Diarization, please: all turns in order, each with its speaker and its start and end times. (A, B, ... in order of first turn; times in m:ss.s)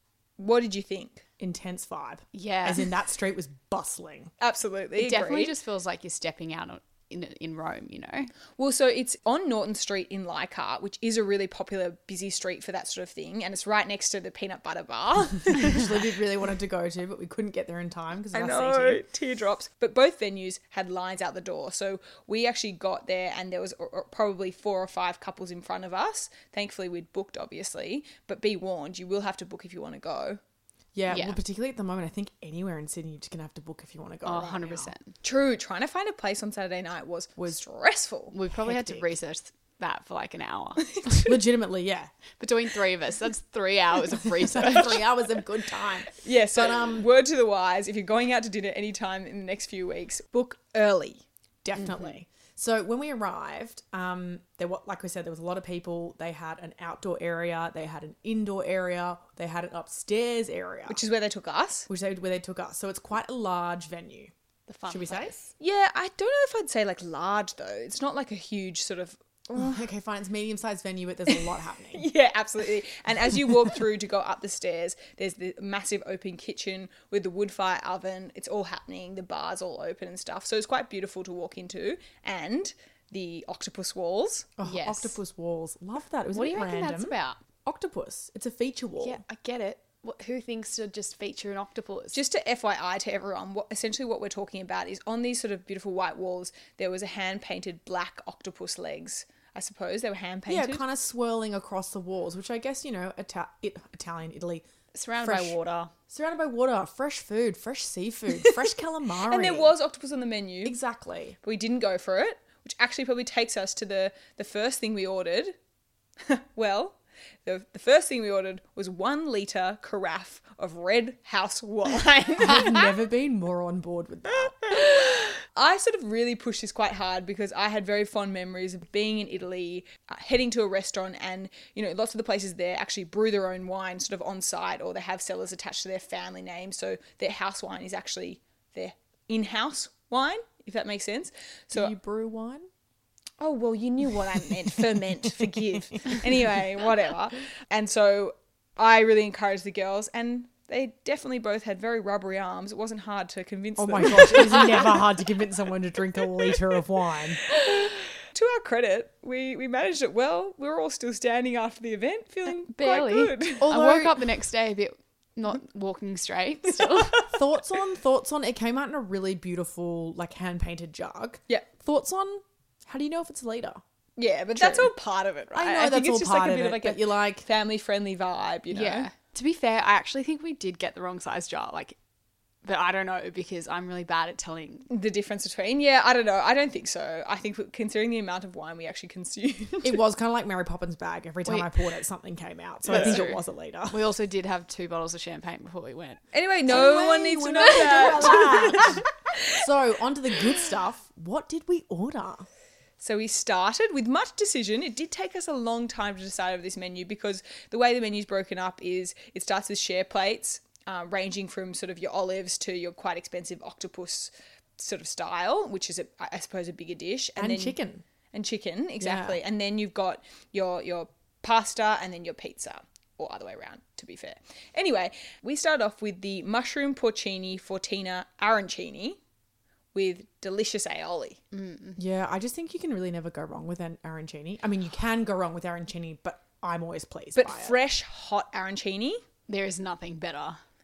0:00.4-0:01.3 A
0:01.4-0:04.3 B
0:02.3-0:02.9 C
0:04.4-0:05.6 A
0:05.0-0:08.3 C
0:08.6-0:15.9 A
0:15.5-0:19.0 B
0:18.3-0:30.4 A
0:30.9-0:34.9 B
0:31.1-0:31.4 C
0:34.2-0:35.1 C
0:35.2-0:38.3 A
0:38.3-0:41.1 C
0:38.5-0:39.1 B
0:41.0-0:41.3 A
0:41.1-0:42.1 B
0:42.4-0:45.0 C
0:44.2-0:47.1 B
0:46.2-0:51.2 A
0:51.6-1:01.0 B
1:00.9-1:01.9 A
1:01.9-1:04.3 B
1:04.7-1:05.5 C
1:04.9-1:05.3 B
1:05.6-1:09.8 A
1:09.6-1:12.1 B
1:11.4-1:24.5 A
1:24.6-1:29.2 B
1:24.6-1:25.2 C
1:26.3-1:27.4 C
1:29.0-1:32.2 C
1:32.1-1:40.8 A
1:40.5-1:44.7 B
1:44.9-1:45.9 C
1:45.2-1:45.6 B
1:46.1-1:49.7 B
1:49.3-1:50.8 A
1:50.6-1:51.4 B
1:51.4-1:55.6 A
1:56.2-2:03.0 A
2:02.4-2:05.1 B
2:04.6-2:22.0 A
2:21.7-2:22.6 B
2:23.4-2:35.0 A
2:25.3-2:25.8 B
2:33.8-2:37.5 B
2:37.5-2:43.7 A
2:42.7-2:47.3 C
2:43.6-2:44.2 B
2:46.8-2:47.3 A
2:47.3-2:53.8 B
2:54.2-2:59.1 A
2:54.6-2:54.9 B
2:55.5-2:57.4 B
2:58.7-3:02.0 C
3:02.6-3:04.9 C
3:04.9-3:10.0 A
3:09.8-3:14.0 B
3:11.4-3:11.7 C
3:12.9-3:13.3 A
3:12.9-3:16.2 C
3:16.3-3:19.6 A
3:16.7-3:22.5 B
3:16.7-3:19.0 C
3:23.0-3:37.8 A
3:37.4-3:38.0 B
3:38.3-3:49.2 A
3:39.0-3:39.4 B
3:49.9-3:51.4 A
3:51.5-3:52.0 C
3:52.0-3:57.8 B
3:57.4-3:59.2 A
3:59.5-4:00.6 C